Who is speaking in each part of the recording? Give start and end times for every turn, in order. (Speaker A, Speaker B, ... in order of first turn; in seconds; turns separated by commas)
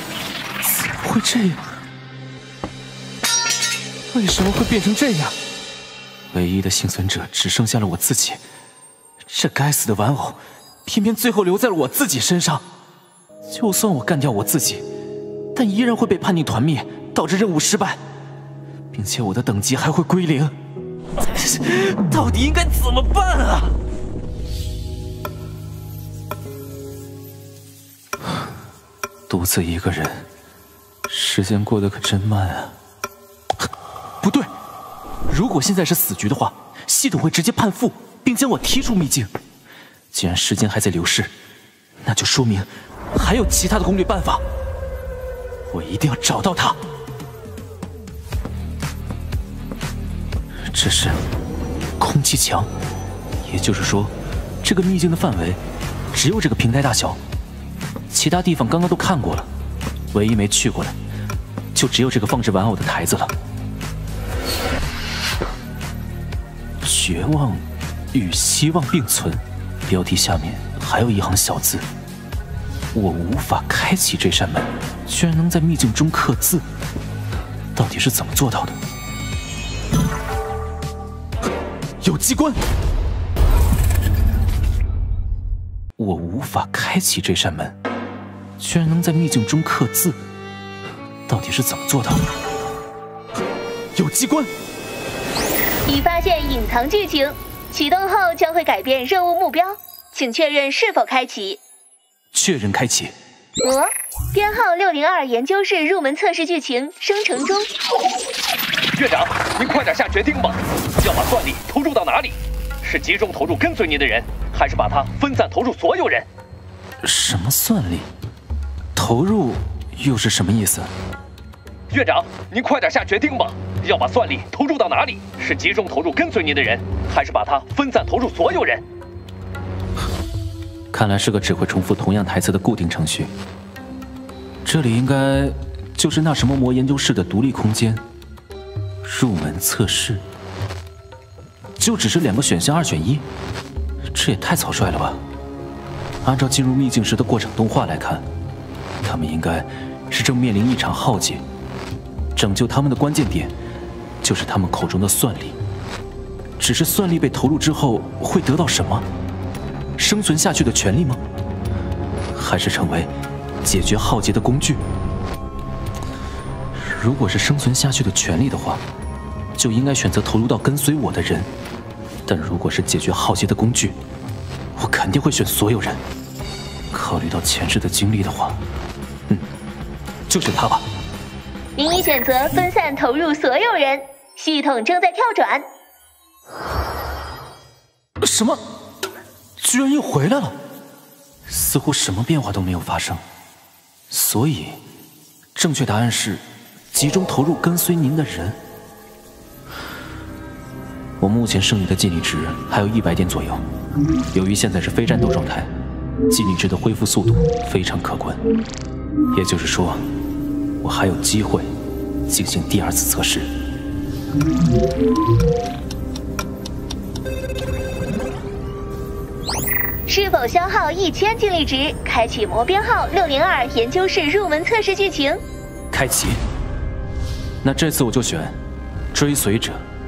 Speaker A: 0.8-1.6, Speaker A: 4.1-5.3, Speaker A: 6.3-8.4, Speaker A: 9.3-12.6, Speaker A: 13.5-14.8, Speaker A: 15.5-18.0, Speaker A: 18.9-20.5, Speaker A: 21.2-23.7, Speaker A: 29.3-30.2, Speaker A: 31.1-32.7, Speaker A: 34.2-34.5, Speaker A: 35.3-39.3, Speaker A: 40.1-41.3, Speaker A: 42.0-44.4, Speaker A: 45.7-46.8, Speaker A: 50.7-51.2, Speaker A: 52.0-52.7, Speaker A: 53.4-55.6, Speaker A: 56.1-57.2, Speaker A: 58.1-59.5, Speaker A: 60.1-61.0, Speaker A: 61.7-63.3, Speaker A: 66.8-71.8, Speaker A: 72.9-76.6, Speaker A: 77.8-78.8, Speaker A: 82.0-82.6, Speaker A: 86.0-87.8, Speaker A: 88.6-90.2, Speaker A: 91.3-92.2, Speaker A: 94.0-94.5, Speaker B: 95.8-101.6, Speaker A: 102.3-103.1, Speaker B: 103.6-107.7, Speaker C: 108.9-116.2, Speaker A: 117.0-118.1, Speaker A: 119.0-120.9, Speaker C: 121.9-128.8, Speaker A: 130.9-133.3, Speaker A: 134.6-138.0, Speaker A: 139.0-140.2, Speaker A: 141.8-143.2, Speaker A: 144.1-145.2, Speaker A: 146.2-148.2, Speaker A: 149.0-151.4, Speaker A: 152.3-153.5, Speaker A: 154.2-155.6, Speaker A: 156.6-159.0, Speaker A: 160.0-161.2, Speaker A: 162.3-163.1, Speaker A: 163.6-164.8, Speaker A: 166.8-168.8, Speaker A: 169.6-171.5, Speaker A: 172.3-173.9, Speaker A: 174.7-176.0, Speaker A: 176.9-178.6, Speaker A: 180.3-180.8, Speaker B: 181.8-185.7, Speaker A: 188.2-188.6, Speaker A: 189.6-190.6, Speaker A: 191.5-193.2, Speaker A: 194.1-194.8, Speaker A: 195.6-198.6, Speaker A: 201.2-203.6, Speaker A: 204.3-205.7, Speaker A: 206.3-208.4, Speaker A: 209.3-210.0, Speaker A: 210.8-211.7, Speaker A: 212.3-213.5, Speaker B: 220.1-225.4, Speaker A: 225.9-226.4, Speaker A: 227.6-228.6, Speaker A: 229.1-229.8